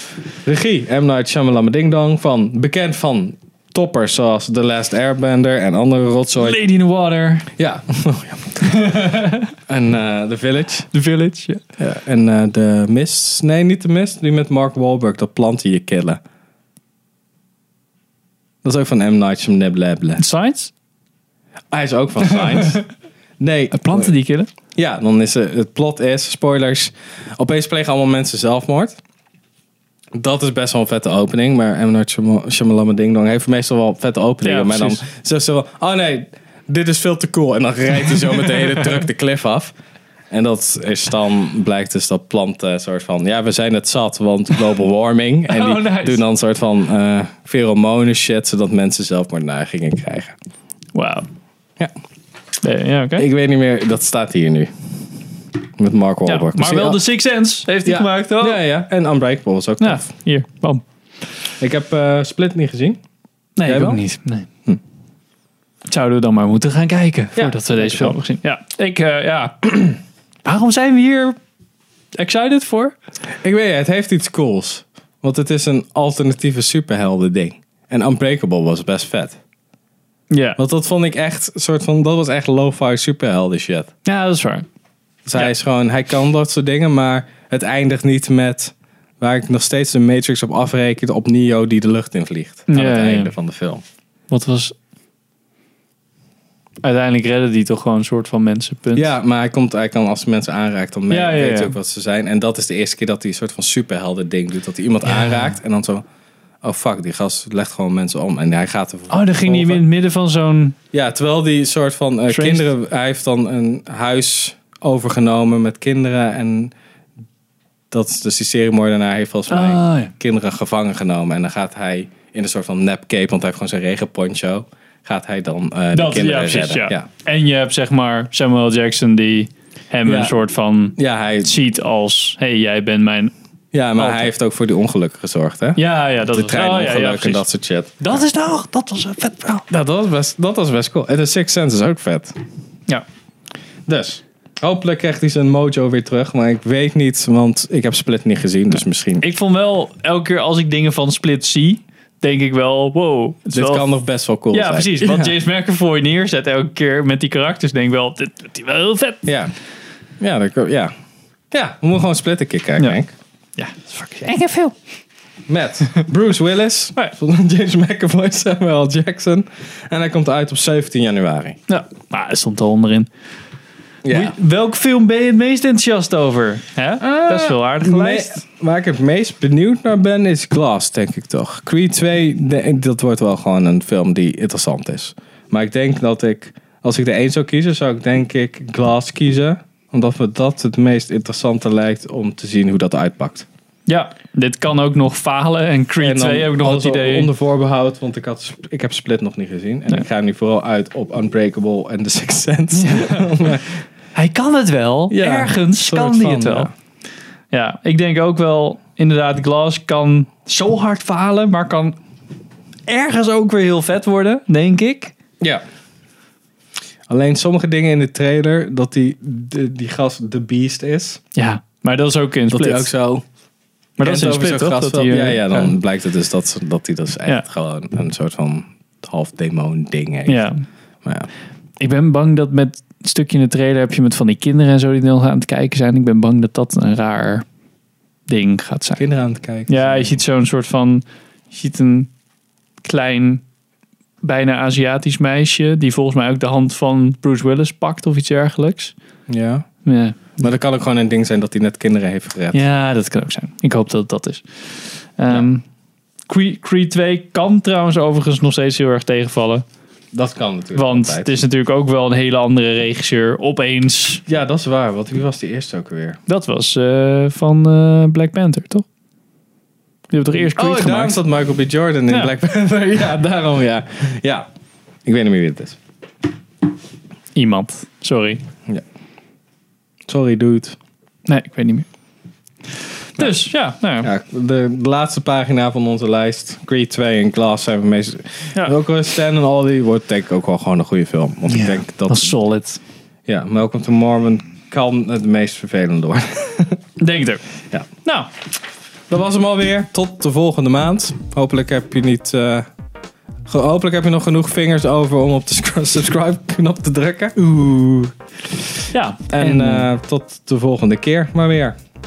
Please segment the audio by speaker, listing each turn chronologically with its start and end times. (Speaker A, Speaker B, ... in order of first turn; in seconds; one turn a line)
Speaker A: 0.3-6.6
Speaker B: 6.4-7.5
Speaker A: 7.5-10.9
Speaker B: 8.7-9.5
Speaker B: 10.9-11.6
Speaker A: 11.8-16.2
Speaker A: 18.6-20.2
Speaker B: 20.2-20.7
Speaker A: 21.7-22.8
Speaker A: 23.4-24.1
Speaker B: 23.7-24.5
Speaker A: 24.7-29.0
Speaker A: 30.1-39.7
Speaker B: 34.4-35.0
Speaker A: 40.3-50.4
Speaker B: 45.5-46.2
Speaker B: 50.9-51.3
Speaker B: 52.6-53.2
Speaker A: 53.1-54.7
Speaker A: 55.8-57.0
Speaker B: 56.2-58.6
Speaker A: 57.8-60.1
Speaker B: 59.8-60.8
Speaker A: 61.6-63.0
Speaker B: 63.6-64.5
Speaker A: 63.6-64.0
Speaker B: 65.9-71.4
Speaker A: 67.3-68.2
Speaker B: 72.2-72.9
Speaker A: 73.4-79.4
Speaker B: 80.3-80.6
Speaker A: 80.6-83.9
Speaker B: 84.0-84.7
Speaker A: 85.2-93.8
Speaker B: 92.7-93.3
Speaker B: 94.3-94.7
Speaker B: 96.8-99.1
Speaker A: 98.9-106.0
Speaker B: 101.1-101.8
Speaker A: 106.6-109.8
Speaker B: 109.1-110.7
Speaker A: 110.9-116.7
Speaker B: 112.3-112.7
Speaker A: 117.9-127.1
Speaker B: 119.5-120.1
Speaker B: 125.9-133.3
Speaker A: 130.0-130.3
Speaker A: 131.0-131.6
Speaker A: 133.7-138.1
Speaker B: 133.9-134.3
Speaker B: 135.8-137.4
Speaker B: 138.0-139.7
Speaker A: 139.7-142.3
Speaker A: 143.9-149.3
Speaker B: 149.2-154.0
Speaker A: 153.5-155.3
Speaker B: 154.5-159.2
Speaker A: 159.2-159.5
Speaker A: 160.2-160.9
Speaker A: 161.5-163.1
Speaker B: 163.6-164.7
Speaker A: 165.5-171.6
Speaker B: 171.7-173.1
Speaker A: 174.0-174.3
Speaker B: 174.1-178.4
Speaker A: 177.0-193.5
Speaker B: 193.9-197.3
Speaker A: 196.0-203.7
Speaker B: 202.7-203.6
Speaker B: 204.1-206.7
Speaker A: 205.1-206.7
Speaker B: 207.5-212.0
Speaker B: 212.9-215.1
Speaker A: 217.1-221.2
Speaker B: 221.3-222.9
Speaker A: 222.5-223.2
Speaker B: 224.0-225.7
Speaker A: 224.0-230.5
Speaker B: 230.3-230.5
Speaker B: 231.8-237.4
Speaker B: 238.3-239.0
Speaker A: 239.0-240.2
Speaker B: 239.7-242.1
Speaker B: 242.8-243.4
Speaker B: 244.2-248.9
Speaker A: 249.3-249.7
Speaker B: 249.8-250.4
Speaker A: 250.4-252.6
Speaker B: 252.5-255.6
Speaker B: 256.3-259.6
Speaker A: 260.1-261.4
Speaker B: 260.7-264.2
Speaker A: 264.3-266.2
Speaker B: 266.3-268.8
Speaker B: 270.1-271.2
Speaker A: 270.5-274.5
Speaker A: 275.1-275.8
Speaker B: 277.3-278.4
Speaker A: 280.1-280.8
Speaker B: 281.2-281.9
Speaker A: 283.2-283.5
Speaker B: 283.2-284.1
Speaker A: 284.0-292.3
Speaker B: 291.5-292.8
Speaker A: 293.3-296.8
Speaker B: 297.0-297.4
Speaker B: 298.0-298.3
Speaker A: 299.1-302.7
Speaker A: 303.5-308.1
Speaker B: 308.9-309.9
Speaker A: 309.3-311.8